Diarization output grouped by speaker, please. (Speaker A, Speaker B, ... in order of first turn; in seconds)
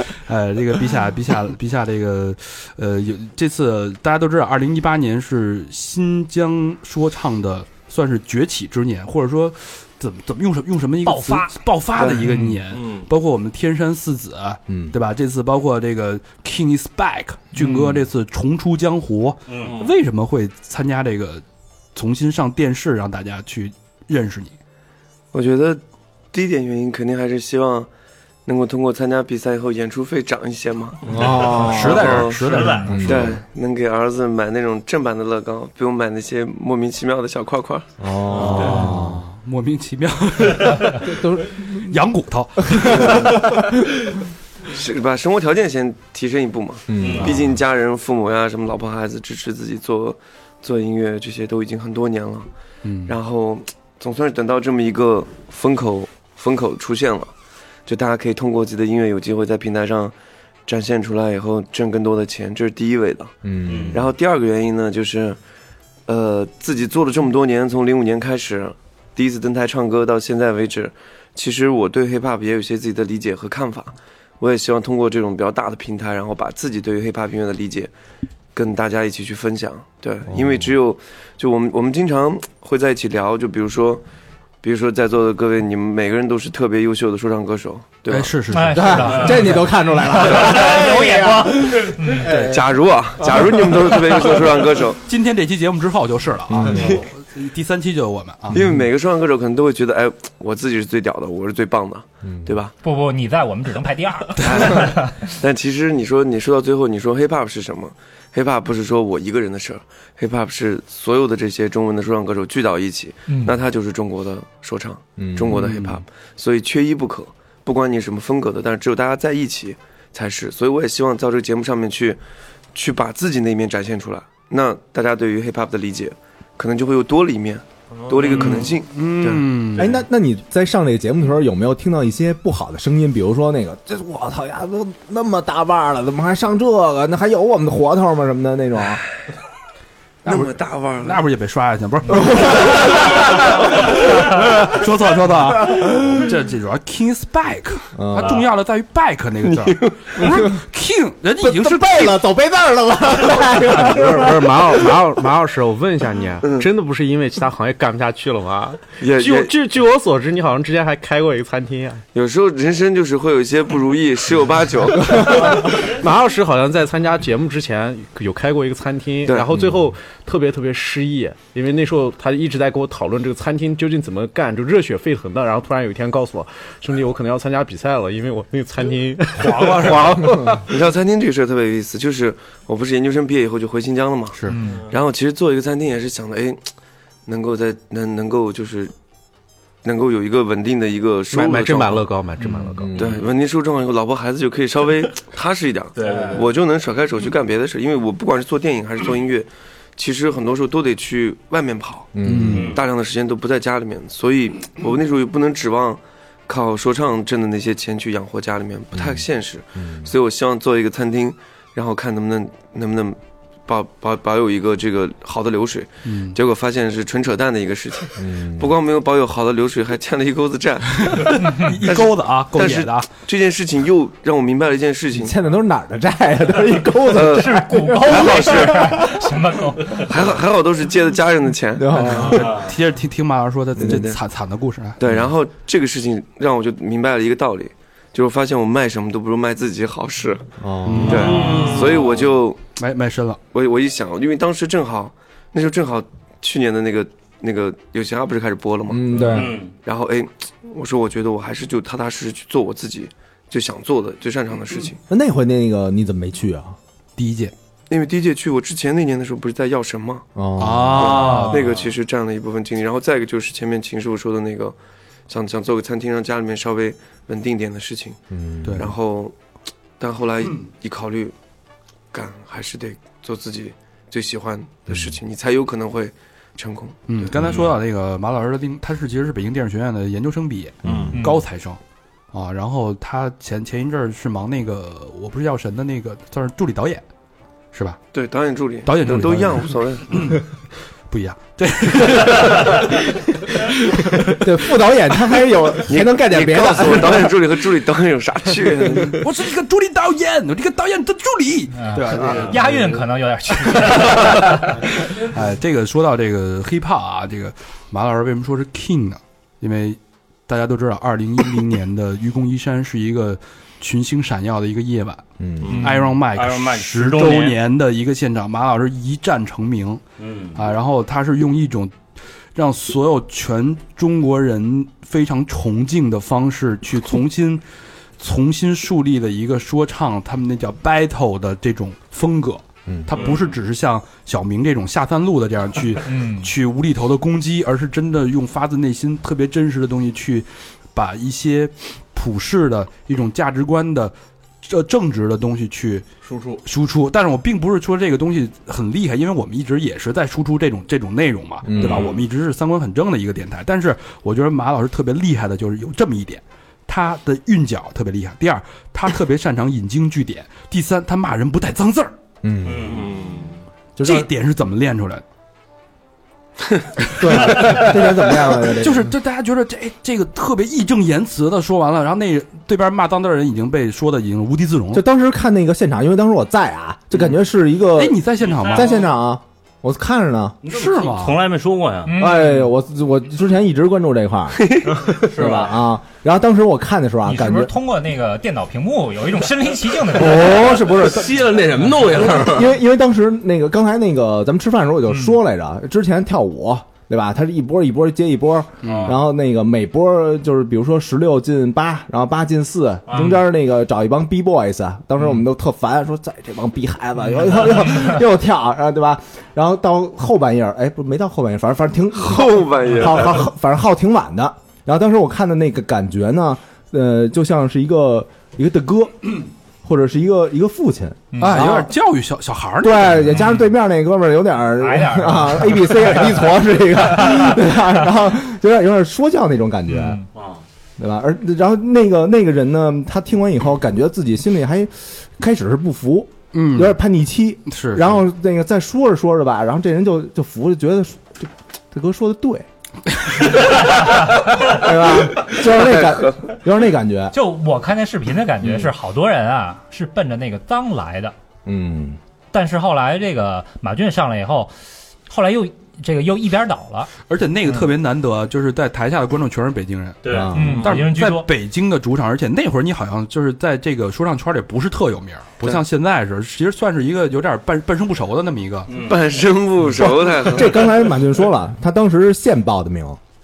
Speaker A: 0.2-21.4, 21.9-24.5, 31.5-33.3, 38.3-43.6, 52.8-53.1, 88.1-89.7, 95.0-98.6, 104.4-104.7, 115.5-116.0, 128.2-130.0, 140.2-152.2, 202.2-202.7, 216.1-216.3, 221.1-223.1, 232.3-235.0, 240.8-242.0, 242.8-243.4, 257.2-257.5, 260.6-261.8, 268.6-268.9, 277.1-281.8, 282.3-287.0, 287.7-288.0, 288.8-290.4, 291.1-294.3, 299.0-302.8, 305.1-315.2, 315.8-320.0, 320.5-321.9, 322.5-327.6, 328.2-346.1, 346.6-362.1, 364.0-365.2, 367.2-368.1, 368.7-375.0, 377.9-379.0, 380.7-381.4, 398.8-399.1, 421.4-423.4, 436.5-437.0, 437.7-438.3, 457.3-468.9
Speaker B: 11.0-11.5, 88.5-92.3, 102.8-105.0, 113.3-113.5, 184.5-184.8, 227.2-230.1, 281.1-281.4, 301.8-304.7, 315.8-316.1, 336.1-336.5, 382.1-382.6, 387.2-390.5, 421.3-421.6, 424.8-426.4, 429.9-430.2, 447.3-451.3, 452.5-454.7, 455.3-457.1, 460.5-461.5
Speaker C: 11.9-12.3, 25.3-25.8, 26.3-27.9, 28.4-32.4, 33.0-37.9, 44.7-52.5, 53.1-57.3, 57.9-60.1, 60.6-63.3, 63.9-65.4, 66.1-77.9, 78.5-84.0, 84.6-88.3, 92.3-95.0, 98.5-102.7, 104.4-122.2, 122.7-129.6, 140.2-141.2, 156.4-156.7, 159.0-159.6, 162.1-165.8, 169.2-169.6, 179.6-186.6, 187.2-188.9, 189.8-192.1, 192.9-225.3, 227.1-229.1, 229.9-232.7, 233.8-234.2, 235.0-240.5, 241.0-242.6, 243.5-255.0, 257.9-260.3, 260.9-264.8, 265.3-268.2, 268.8-269.3, 270.0-271.3, 272.1-277.4, 288.1-290.3, 295.9-299.2, 384.6-384.9, 412.1-413.4, 445.8-446.3, 469.0-470.8
Speaker D: 12.7-13.1, 19.5-19.9, 128.0-128.5, 196.1-196.4, 346.2-346.6, 362.9-363.5, 390.5-392.7
Speaker E: 14.7-14.9, 17.6-18.0, 31.1-32.2, 32.8-33.3, 38.0-39.2, 40.9-42.0, 42.7-43.2, 46.9-47.6, 63.4-64.0, 88.7-92.6, 93.2-94.3, 96.5-97.0, 98.5-98.8, 102.2-102.5, 115.2-115.5, 129.8-139.0, 142.1-143.3, 147.9-148.4, 150.2-150.6, 151.4-154.7, 192.7-193.2, 202.1-202.7, 208.9-209.2, 209.8-210.1, 218.2-218.7, 225.1-229.2, 231.8-232.5, 240.6-241.4, 248.9-249.6, 255.1-256.8, 260.4-261.4, 268.3-268.8, 274.9-275.1, 280.8-281.1, 294.2-297.3, 315.4-315.7, 332.9-333.1, 351.6-352.1, 362.4-363.0, 364.0-364.3, 367.1-369.1, 374.9-380.6, 382.1-387.7, 390.1-391.5, 392.0-421.9, 422.8-430.2, 431.0-442.7, 444.6-447.3, 451.6-452.2, 460.3-460.9, 470.0-473.2
Speaker F: 32.5-32.9, 47.0-47.3, 63.6-64.0, 196.0-196.3, 202.5-202.8, 241.2-241.9, 249.2-249.7, 315.6-317.6, 320.2-320.6, 362.6-363.0, 378.4-378.9, 380.6-382.1, 385.1-385.7, 398.8-399.1, 403.1-403.4, 460.2-460.8, 468.9-469.2
Speaker G: 153.9-162.0, 165.3-180.6, 191.3-192.9